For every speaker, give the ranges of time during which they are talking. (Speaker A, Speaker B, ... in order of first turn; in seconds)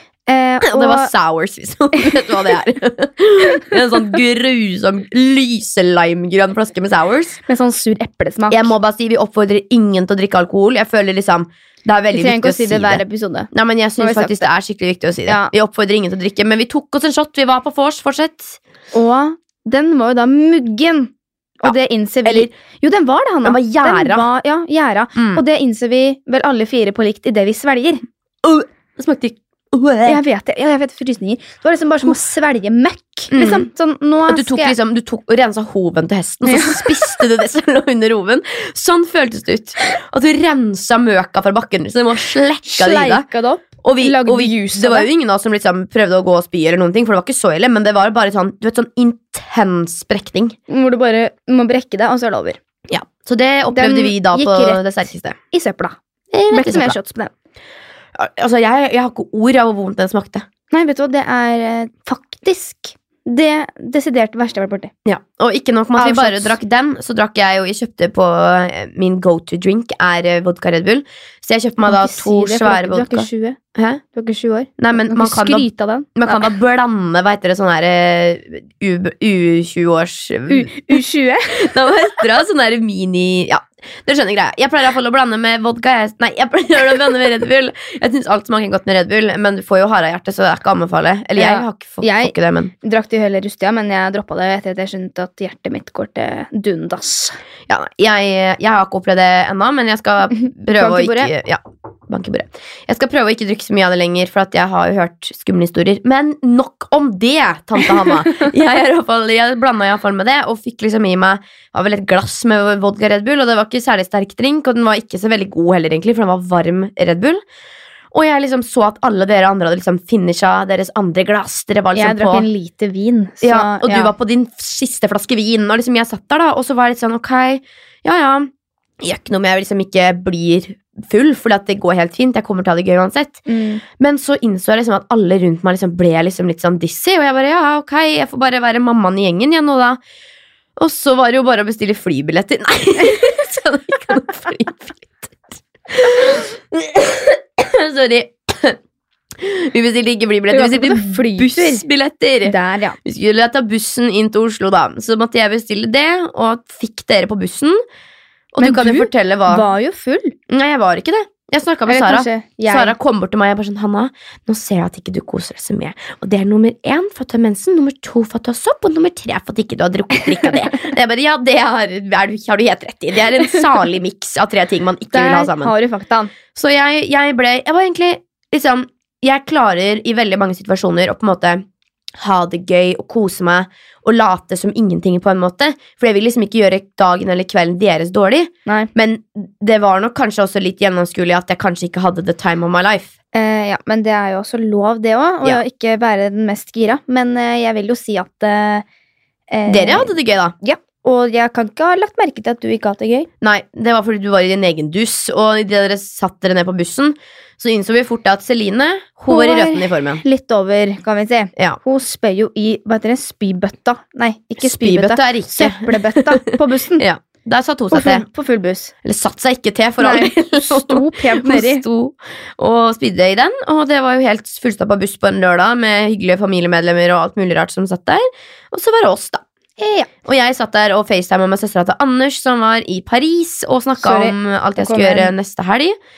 Speaker A: 0.3-1.1, 7.5-8.7, 12.1-14.4, 15.3-15.5, 18.9-28.0, 30.0-34.7, 36.4-37.2, 42.6-45.1, 50.7-52.6, 53.7-54.9, 55.5-56.0, 56.5-57.3, 60.7-64.9, 66.0-66.6, 71.8-73.6, 74.1-76.4, 80.5-81.7, 91.3-97.4, 100.4-101.3, 121.9-124.1, 133.5-133.8, 150.5-151.8, 152.4-153.0, 158.6-160.3, 161.9-162.9, 175.1-176.3, 193.3-198.8, 199.5-203.3, 209.3-217.0, 217.9-218.9, 220.0-221.8, 229.8-230.1, 234.0-235.3
Speaker B: 0.6-7.4, 8.5-18.6, 22.2-22.5, 23.4-24.3, 25.1-25.4, 28.4-30.2, 33.3-33.7, 34.3-43.3, 43.8-50.5, 52.9-55.4, 56.3-57.0, 58.1-60.5, 65.0-74.0, 74.8-92.7, 97.7-117.4, 118.1-122.5, 123.4-128.5, 129.0-133.4, 134.0-140.0, 140.8-148.8, 149.3-157.8, 158.5-159.6, 160.5-175.7, 176.5-181.6, 182.2-193.1, 199.7-200.5, 203.4-210.2, 214.6-218.2, 219.0-229.4, 230.2-235.9